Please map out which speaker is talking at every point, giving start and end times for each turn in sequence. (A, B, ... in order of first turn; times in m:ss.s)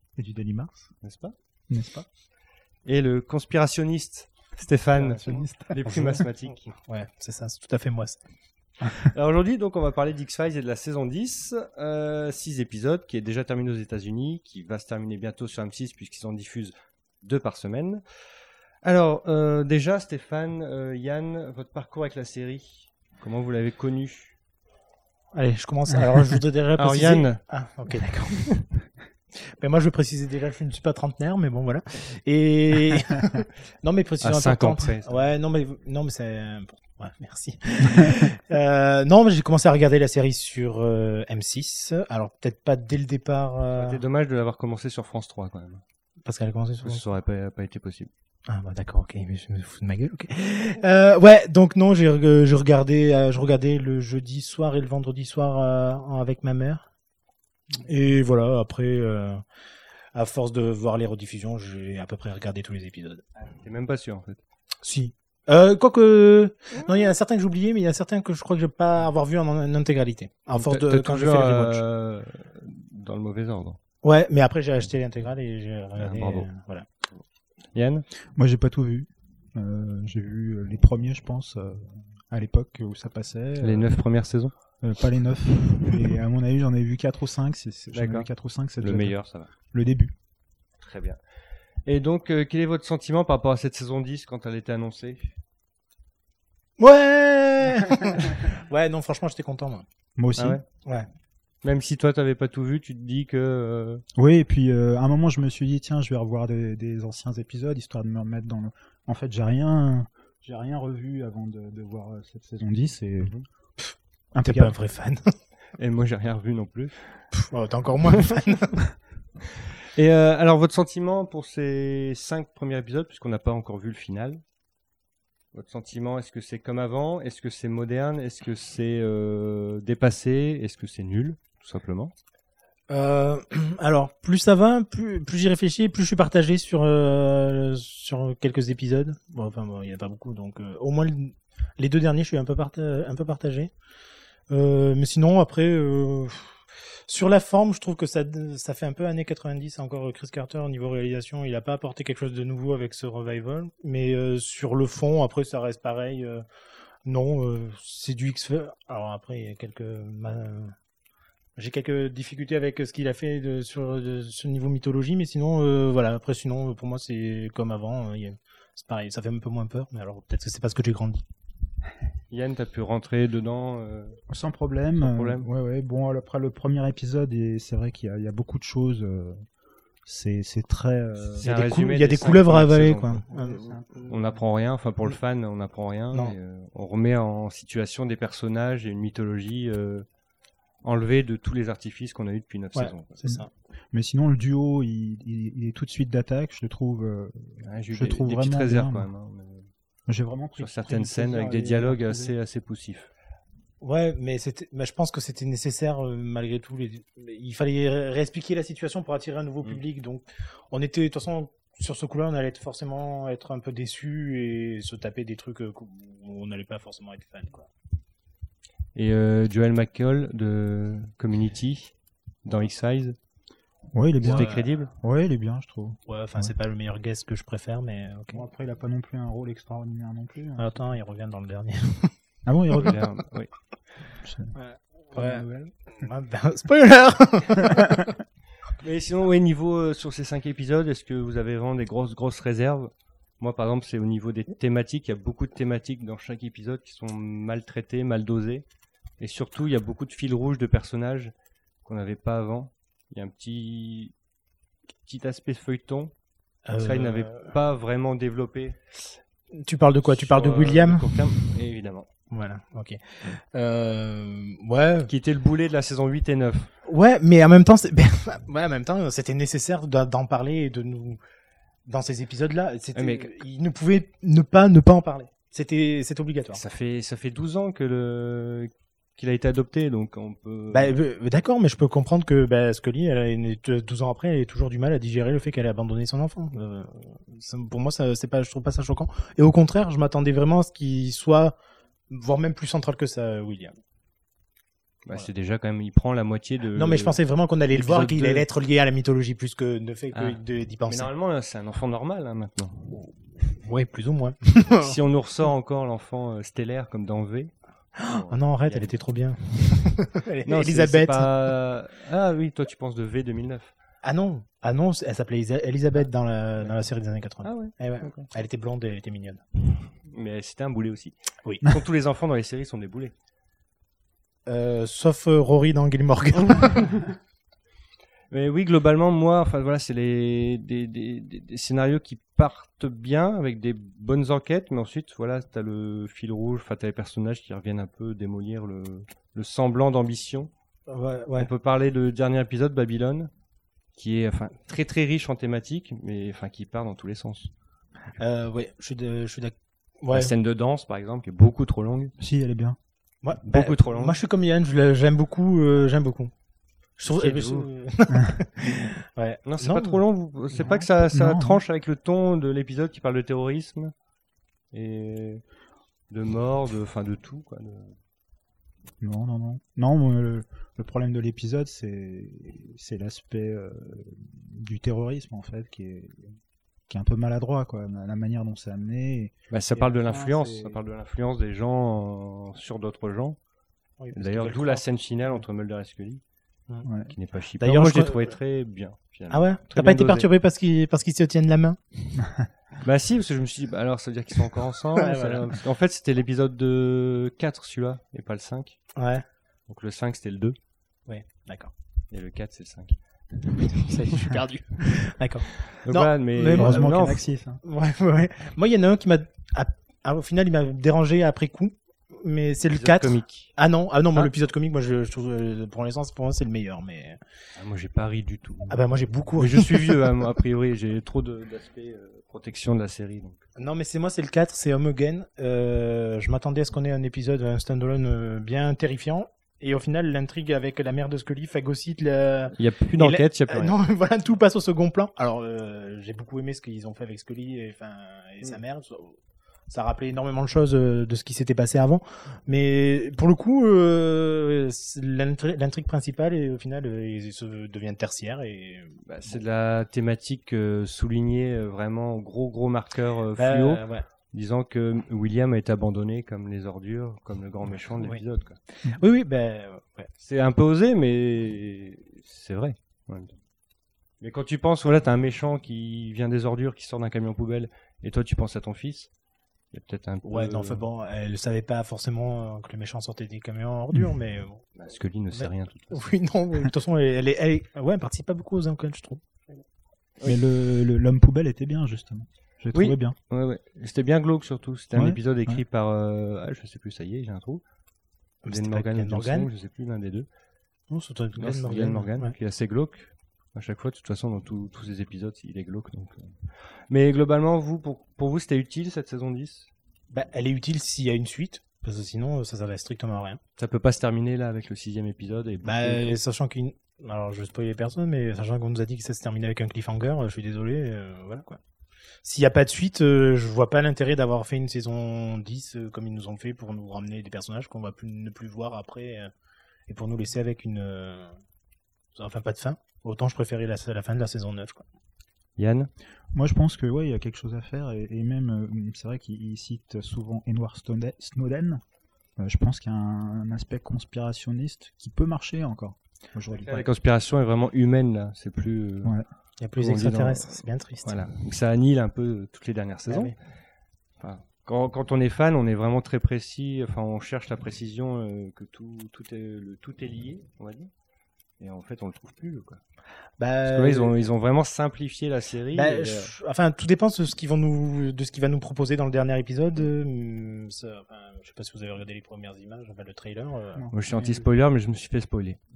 0:00.2-0:00.9 A
0:01.0-0:01.3 B
0:01.7-0:02.0 A
0:02.9-0:06.7 B
0:04.9-0:08.2 C
0:09.0-0:18.0 B
0:18.8-0:24.4 B
0:25.3-0:28.6 C
0:26.8-0:27.4 B
0:29.6-0:44.0 C
0:34.2-0:35.2 B
0:43.7-0:45.8 B
0:46.2-0:47.0 C
0:46.8-0:48.1 B
0:48.5-0:56.8 C
0:57.8-0:59.4 C
1:00.2-1:03.2 C
1:03.4-1:04.4 B
1:04.8-1:11.8 C
1:10.6-1:13.8 B
1:14.0-1:16.9 C
1:16.0-1:16.5 B
1:17.7-1:18.1 B
1:18.4-1:24.0 A
1:23.6-1:24.5 B
1:24.8-1:30.1 A
1:27.9-1:29.5 B
1:30.8-1:31.2 B
1:31.9-1:35.3 B
1:36.8-1:39.8 C
1:40.2-1:40.6 A
1:40.4-1:40.6 B
1:41.6-1:44.0 B
1:44.2-1:53.4 A
1:53.2-1:53.5 B
1:53.8-1:55.2 C
1:54.3-1:54.8 A
1:55.8-1:57.0 B
1:57.3-1:58.8 C
1:59.9-2:04.4 B
2:05.5-2:12.1 B
2:12.9-2:23.7 C
2:24.5-2:26.5 C
2:27.1-2:36.4 C
2:37.1-2:40.7 C
2:41.6-2:51.2 C
2:52.3-2:54.2 B
2:54.3-2:59.5 A
2:55.0-2:55.5 B
3:00.0-3:01.5 A
3:01.4-3:03.2 B
3:01.4-3:03.8 C
3:03.3-3:04.0 A
3:04.1-3:10.1 B
3:10.8-3:13.1 B
3:12.7-3:13.5 C
3:13.2-3:19.1 A
3:17.6-3:19.7 B
3:20.1-3:22.3 A
3:20.6-3:23.1 B
3:23.8-3:37.7 C
3:39.0-3:43.2 B
3:43.9-3:46.0 A
3:44.2-3:44.7 C
3:44.3-3:44.9 B
3:46.1-3:48.4 C
3:48.3-3:50.8 A
3:50.6-3:52.1 C
3:52.5-3:53.0 A
3:52.8-3:53.5 B
3:54.2-3:54.6 A
3:54.5-3:55.5 C
3:55.1-3:55.8 A
3:56.0-3:58.1 C
3:58.8-4:08.6 B
4:09.2-4:11.3 B
4:11.8-4:14.1 B
4:15.1-4:16.1 B
4:16.6-4:17.5 C
4:16.8-4:18.8 B
4:19.5-4:21.3 C
4:20.0-4:22.1 B
4:22.3-4:25.1 C
4:25.1-4:26.7 B
4:26.8-4:31.2 C
4:31.8-4:36.6 C
4:32.9-4:33.4 B
4:36.5-4:40.9 B
4:40.7-4:51.6 C
4:52.1-4:53.7 C
4:55.1-4:58.5 B
4:56.7-5:01.1 C
5:00.1-5:03.0 B
5:03.6-5:05.0 C
5:04.8-5:09.6 B
5:08.0-5:11.4 C
5:10.4-5:13.7 B
5:14.0-5:19.4 C
5:17.4-5:18.3 B
5:20.1-5:23.1 B
5:21.4-5:21.7 C
5:24.4-5:27.1 C
5:28.3-5:40.5 B
5:40.9-5:41.5 C
5:41.4-5:43.3 B
5:44.0-5:47.5 B
5:48.2-5:50.3 C
5:50.1-5:52.1 B
5:52.2-5:52.8 A
5:53.2-5:56.3 C
5:53.4-5:54.2 B
5:57.0-6:00.0 C
5:57.1-5:57.7 B
5:59.4-6:03.9 B
6:00.5-6:01.6 A
6:04.7-6:05.4 B
6:06.1-6:07.9 B
6:09.0-6:16.4 A
6:16.9-6:20.8 A
6:19.5-6:23.4 B
6:24.0-6:25.4 C
6:24.1-6:26.2 B
6:26.8-6:27.1 A
6:27.1-6:30.3 B
6:27.6-6:28.4 C
6:29.3-6:32.4 C
6:32.8-6:38.8 B
6:35.0-6:35.4 C
6:39.0-6:39.2 C
6:39.7-6:40.6 B
6:41.1-6:41.7 C
6:42.1-6:44.9 B
6:43.9-6:57.2 C
6:45.6-6:47.3 B
6:46.4-6:47.6 A
6:52.6-6:53.5 B
6:57.6-6:58.8 B
6:58.7-7:00.1 C
6:59.3-7:03.4 B
7:03.6-7:19.1 C
7:12.5-7:13.8 B
7:19.7-7:29.4 C
7:29.1-7:38.6 B
7:33.4-7:34.0 C
7:38.8-7:40.1 C
7:40.2-7:43.3 B
7:44.2-7:49.1 B
7:49.7-7:50.8 B
7:50.2-7:54.7 C
7:54.8-7:56.1 B
7:55.3-7:59.2 C
8:00.2-8:03.2 A
8:02.7-8:07.6 B
8:04.9-8:05.6 A
8:08.4-8:09.5 C
8:08.5-8:10.3 B
8:10.9-8:12.3 C
8:11.4-8:16.3 B
8:16.9-8:19.7 B
8:20.1-8:23.4 C
8:23.6-8:26.1 B
8:25.6-8:31.6 C
8:32.2-8:39.3 C
8:39.9-8:41.3 C
8:42.1-8:44.8 C
8:45.6-8:45.9 B
8:46.3-8:51.8 A
8:52.4-8:56.9 A
8:56.5-8:59.1 B
8:59.6-9:01.2 C
8:59.8-9:03.3 B
9:03.1-9:03.3 C
9:04.2-9:10.9 B
9:11.6-9:12.8 B
9:13.4-9:14.2 C
9:13.6-9:16.3 B
9:15.7-9:23.8 C
9:23.8-9:24.4 A
9:23.9-9:25.6 B